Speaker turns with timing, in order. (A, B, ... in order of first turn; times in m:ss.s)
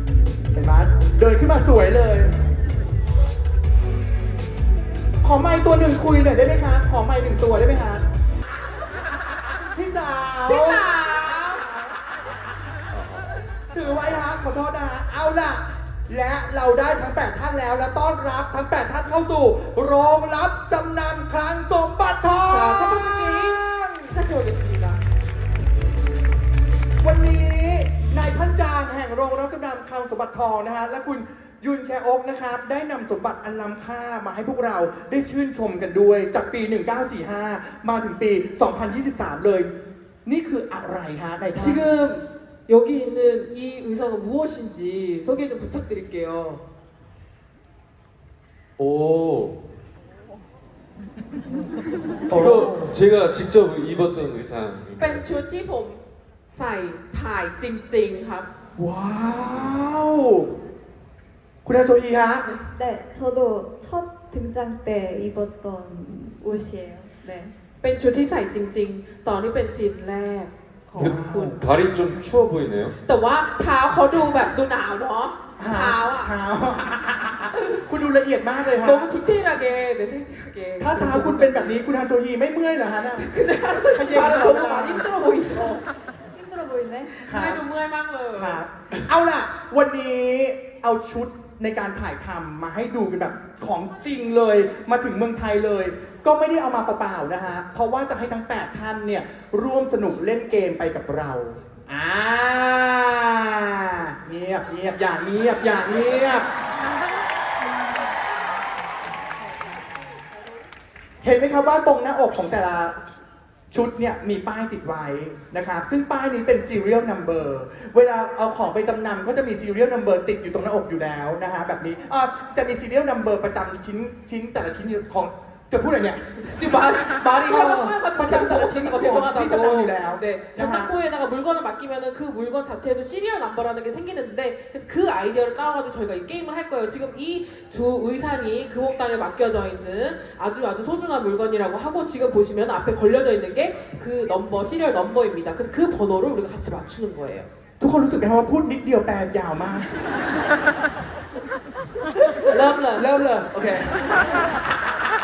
0:00.5-0:02.3 A
0:05.2-0:08.0 A
0:09.7-0:10.9 A
0:10.4-0:11.6 B
0:12.9-0:13.3 C
0:13.7-0:24.1 A
0:22.5-0:25.0 B
0:27.0-0:39.7 A
0:40.2-0:41.8 A
0:41.5-0:46.6 B
0:48.8-0:49.6 C
0:52.3-0:55.3 C
0:52.3-0:52.9 A
0:55.0-0:58.5 B
0:58.8-1:00.5 A
1:01.6-1:02.4 A
1:02.7-1:07.5 D
1:07.8-1:11.6 B
1:11.0-1:11.6 A
1:11.0-1:12.9 C
1:13.0-1:16.3 B
1:15.6-1:19.1 A
1:18.6-1:21.8 B
1:20.8-1:23.3 A
1:23.2-1:25.8 B
1:23.9-1:25.0 A
1:26.3-1:27.2 D
1:27.1-1:28.6 B
1:27.3-1:27.6 A
1:28.3-1:46.4 A
1:51.2-1:53.0 A
1:53.7-2:06.2 A
2:06.4-2:27.5 B
2:07.5-2:10.9 A
2:27.8-2:30.0 A
2:32.2-2:34.3 A
2:32.5-2:33.1 B